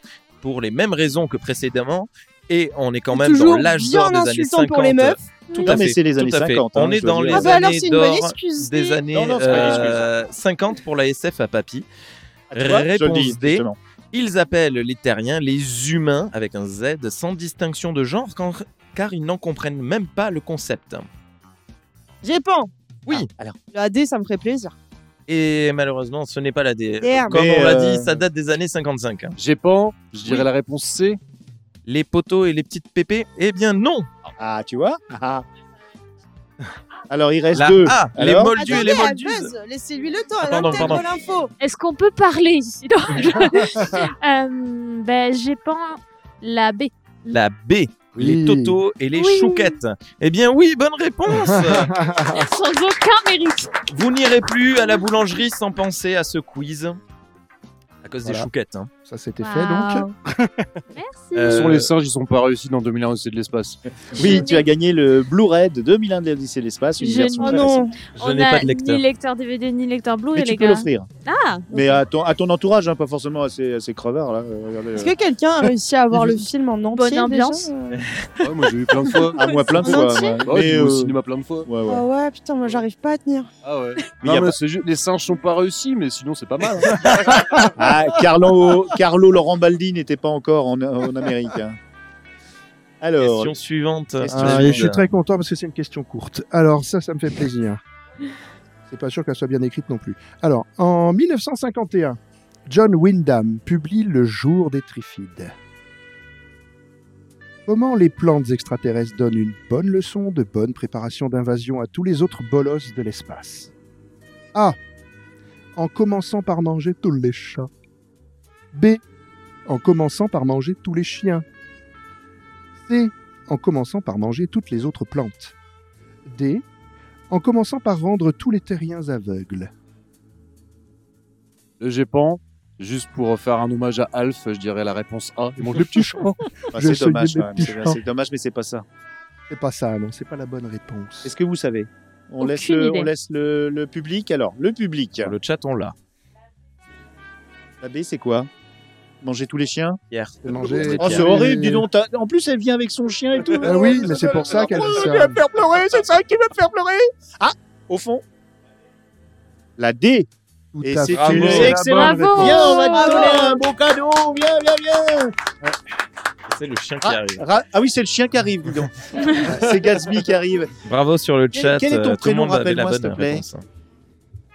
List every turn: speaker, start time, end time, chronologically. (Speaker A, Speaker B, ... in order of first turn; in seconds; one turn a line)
Speaker A: 0.4-11.9
Speaker B: 3.1-5.2
Speaker C: 5.5-5.8
Speaker D: 5.6-7.6
Speaker B: 7.3-9.8
Speaker D: 9.1-10.1
Speaker D: 12.5-13.8
Speaker A: 12.5-21.1
Speaker B: 22.2-22.7
Speaker B: 23.7-24.8
Speaker A: 25.3-29.4
Speaker B: 27.0-27.4
Speaker D: 27.3-28.2
Speaker E: 29.4-31.2
Speaker A: 31.9-34.1
Speaker D: 34.4-35.5
Speaker D: 37.1-38.8
Speaker A: 37.5-39.5
Speaker B: 38.5-41.5
Speaker A: 40.4-41.1
Speaker C: 41.6-47.4
Speaker A: 47.3-51.9
Speaker F: 48.2-48.8
Speaker C: 49.1-49.8
Speaker F: 51.3-52.5
Speaker C: 52.3-53.8
Speaker A: 53.9-57.0
Speaker A: 58.0-58.9
Speaker F: 58.2-58.5
Speaker F: 59.1-60.5
Speaker C: 59.4-60.1
Speaker C: 60.9-61.6
Speaker A: 61.3-61.9
Speaker E: 61.5-63.8
Speaker D: 64.1-67.8
Speaker C: 64.2-64.7
Speaker C: 67.0-71.9
Speaker B: 67.4-68.0
Speaker A: 68.2-69.0
Speaker D: 70.3-71.1
Speaker D: 71.7-75.2
Speaker B: 75.0-78.0
Speaker C: 76.9-77.7
Speaker E: 78.4-79.9
Speaker D: 79.3-82.0
Speaker B: 79.8-80.4
Speaker E: 80.5-81.7
Speaker B: 81.8-83.5
Speaker E: 83.6-87.7
Speaker D: 84.2-84.5
Speaker D: 87.8-91.8
Speaker D: 93.0-93.5
Speaker A: 93.2-95.1
Speaker D: 94.2-94.8
Speaker F: 94.3-97.8
Speaker F: 98.9-105.5
Speaker F: 107.7-113.7
Speaker F: 115.8-117.7
Speaker F: 118.7-119.0
Speaker F: 119.7-121.5
Speaker F: 122.8-125.5
Speaker F: 126.3-126.6
Speaker F: 127.3-129.7
Speaker E: 131.8-136.3
Speaker F: 135.6-138.0
Speaker D: 136.7-138.8
Speaker F: 139.5-141.3
Speaker D: 141.2-145.3
Speaker C: 142.4-143.1
Speaker A: 145.2-145.9
Speaker D: 147.8-148.5
Speaker D: 149.2-150.0
Speaker A: 150.1-151.5
Speaker F: 150.4-151.9
Speaker D: 151.0-156.1
Speaker F: 153.6-157.0
Speaker D: 157.4-158.2
Speaker D: 159.8-160.3
Speaker F: 160.7-162.8
Speaker D: 160.8-165.7
Speaker A: 161.1-161.8
Speaker C: 161.9-163.6
Speaker B: 162.9-163.6
Speaker A: 166.5-167.4
Speaker D: 167.0-170.7
Speaker A: 170.8-173.6
Speaker D: 171.6-173.4